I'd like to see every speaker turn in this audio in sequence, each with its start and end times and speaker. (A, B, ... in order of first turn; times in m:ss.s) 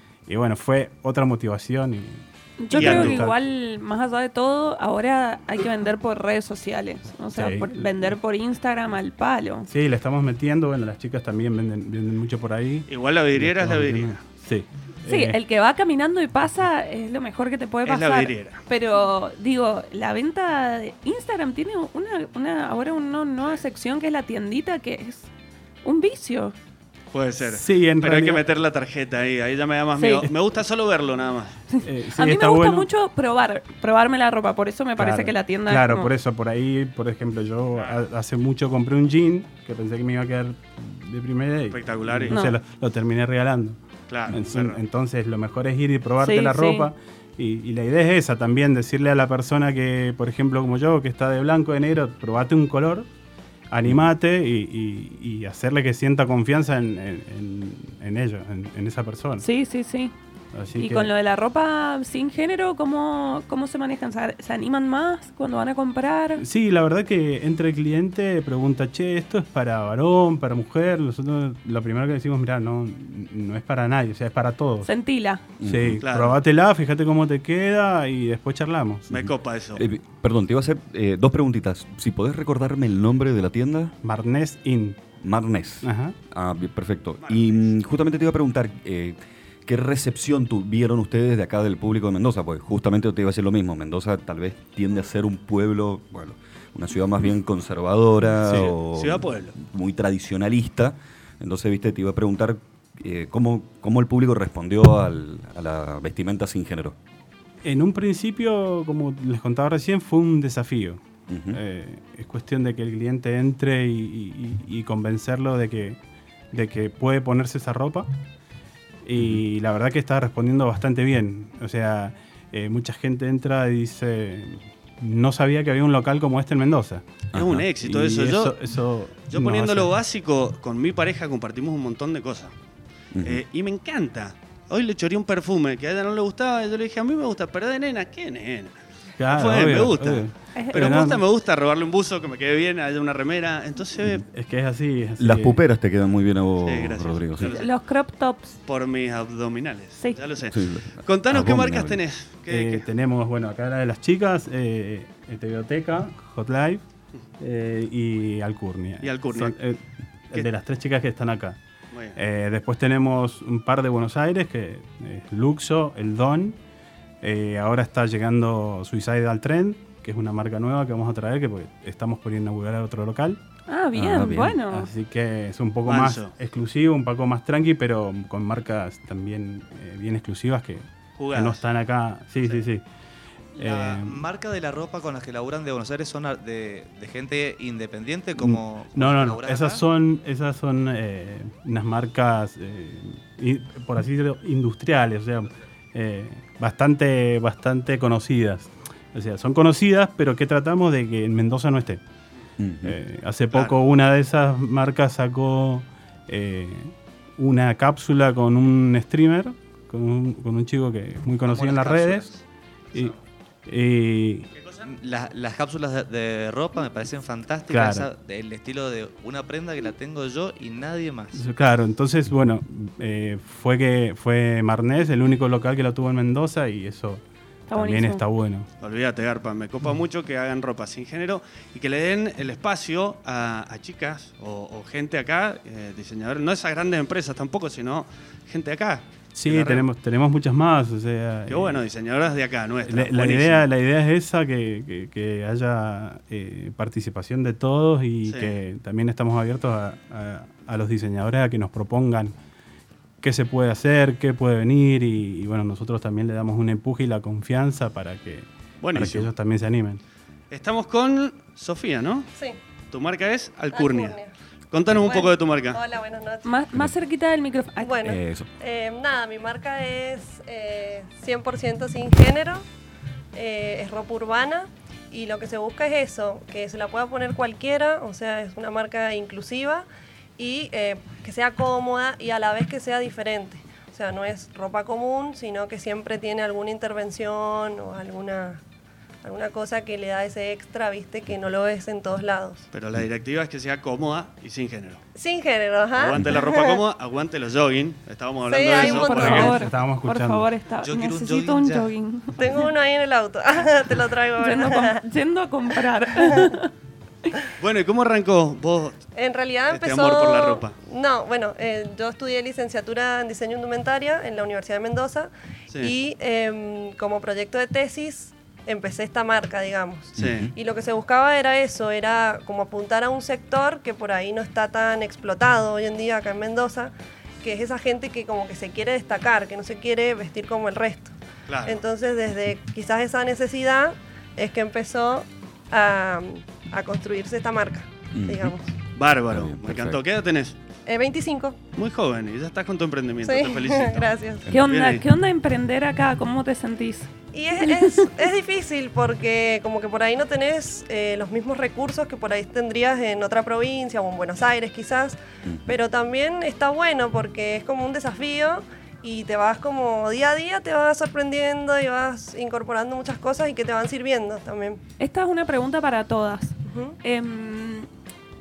0:00.3-0:03.4 A
0:02.6-0:09.7 B
0:02.7-0:03.2 C
0:07.3-0:08.1 A
0:09.7-0:15.4 A
0:12.9-0:14.2 C
0:15.1-0:25.3 B
0:17.8-0:18.6 C
0:25.8-0:26.5 B
0:27.1-0:31.6 C
0:27.5-0:28.4 A
0:30.0-0:30.3 B
0:31.7-0:36.1 B
0:31.8-0:32.9 A
0:35.0-0:53.1 A
0:41.7-0:42.4 C
0:42.3-0:42.6 B
0:44.1-0:44.8 C
0:46.2-0:46.9 B
0:53.7-0:59.4 A
0:59.4-1:00.1 B
1:00.5-1:01.1 A
1:00.8-1:06.4 B
1:06.4-1:14.9 A
1:14.8-1:15.4 B
1:15.6-1:16.0 D
1:15.6-1:19.0 A
1:16.0-1:16.4 C
1:19.1-1:19.8 C
1:19.1-1:23.9 D
1:24.0-1:25.0 A
1:25.2-1:47.0 D
1:25.8-1:26.2 A
1:27.2-1:27.7 C
1:38.4-1:38.7 A
1:38.5-1:39.5 C
1:47.6-1:56.0 A
1:51.3-1:51.6 D
1:56.5-1:58.1 A
1:59.0-2:07.0 A
1:59.2-1:59.4 D
2:07.3-2:07.7 D
2:07.3-2:08.6 C
2:07.8-2:09.9 A
2:09.3-2:12.5 C
2:13.1-2:13.4 D
2:13.2-2:18.7 C
2:19.2-2:21.2 A
2:19.3-2:24.2 C
2:20.6-2:21.0 B
2:24.3-2:25.6 A
2:25.2-2:27.5 D
2:26.6-2:27.7 C
2:27.4-2:28.6 B
2:28.6-2:32.8 C
2:30.5-2:32.0 D
2:32.5-2:36.8 A
2:37.4-2:41.6 A
2:39.0-2:39.5 C
2:41.9-2:42.2 C
2:42.2-2:46.6 A
2:47.2-2:53.4 A
2:53.7-2:54.9 B
2:53.9-2:54.6 D
2:54.7-3:02.8 A
2:55.8-2:56.3 C
3:01.2-3:01.6 C
3:03.6-3:04.2 A
3:03.6-3:09.8 E
3:08.4-3:22.0 A
3:22.6-3:23.0 D
3:22.8-3:32.3 A
3:31.4-3:32.4 E
3:33.7-3:34.5 A
3:34.8-3:41.4 E
3:37.7-3:38.1 A
3:41.3-3:48.7 A
3:47.7-3:48.2 B
3:48.8-3:59.8 C
3:59.3-4:01.8 A
4:01.5-4:03.6 C
4:02.8-4:12.3 A
4:08.3-4:08.5 C
4:13.2-4:20.0 A
4:18.8-4:19.3 C
4:20.5-4:22.3 C
4:22.9-4:24.2 C
4:23.7-4:24.3 F
4:24.7-4:25.8 C
4:25.0-4:26.5 F
4:26.4-4:27.9 B
4:27.8-4:32.6 F
4:28.0-4:28.5 D
4:33.3-4:39.9 F
4:40.4-4:48.6 F
4:49.2-4:52.6 F
4:52.7-4:55.0 C
4:55.1-4:56.8 F
4:56.0-4:59.5 C
4:58.5-4:59.7 F
4:58.7-5:02.6 B
4:59.2-5:00.5 A
5:00.8-5:01.9 E
5:02.4-5:05.0 F
5:04.4-5:06.7 B
5:06.2-5:06.5 F
5:07.6-5:09.0 C
5:09.2-5:31.1 F
5:09.7-5:10.7 C
5:20.2-5:20.5 D
5:20.2-5:20.5 C
5:31.5-5:31.8 C
5:31.6-5:38.7 F
5:38.1-5:38.5 D
5:39.0-5:40.6 C
5:39.3-5:40.0 D
5:40.9-5:41.6 F
5:41.8-5:45.0 C
5:43.2-5:44.5 F
5:44.5-5:47.1 B
5:47.3-6:04.8 F
5:47.6-5:48.1 B
5:55.4-5:55.7 D
6:05.0-6:07.9 B
6:06.6-6:07.0 F